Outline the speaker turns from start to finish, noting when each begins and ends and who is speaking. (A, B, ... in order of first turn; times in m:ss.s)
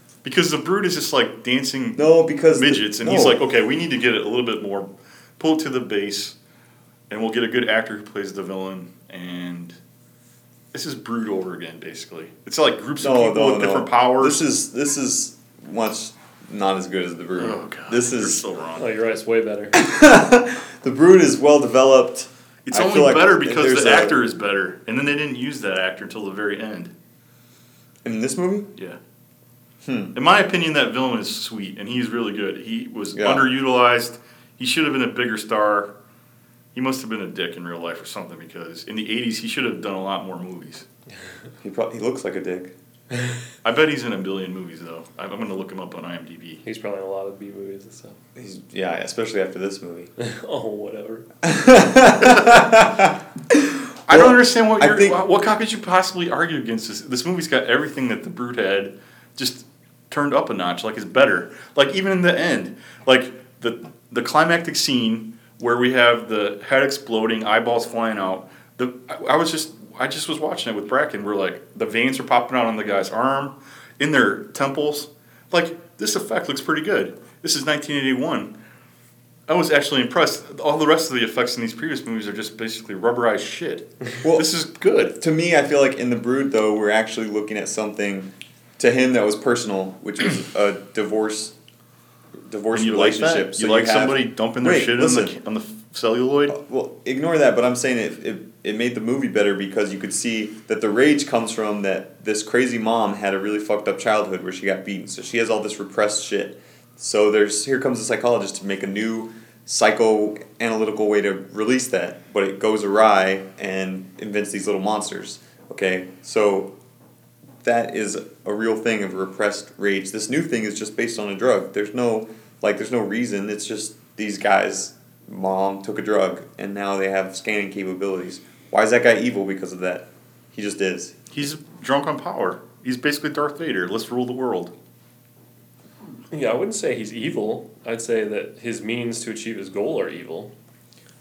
0:00.2-0:04.9 A
0:02.0-0:03.4 B
0:05.4-0:06.4 A
0:07.1-0:09.8 A
0:10.7-0:14.4 A
0:13.0-0:18.4 B
0:17.4-0:18.9 A
0:18.8-0:19.8 C
0:19.7-0:24.2 B
0:22.7-0:26.9 A
0:28.0-0:28.7 B
0:29.8-0:30.1 B
0:30.2-0:35.9 A
0:33.1-0:33.5 B
0:36.7-0:40.8 A
0:41.6-0:42.7 B
0:43.6-0:46.6 A
0:46.6-0:48.2 C
0:48.4-0:50.1 B
0:50.2-0:51.3 C
0:51.4-0:55.2 B
0:52.3-0:52.6 A
0:54.1-1:18.5 A
1:19.5-1:25.2 A
1:25.2-1:31.5 B
1:32.4-1:35.4 B
1:32.7-1:36.6 A
1:36.5-1:56.8 B
1:57.6-2:11.2 B
2:11.3-2:14.7 A
2:16.3-2:20.5 C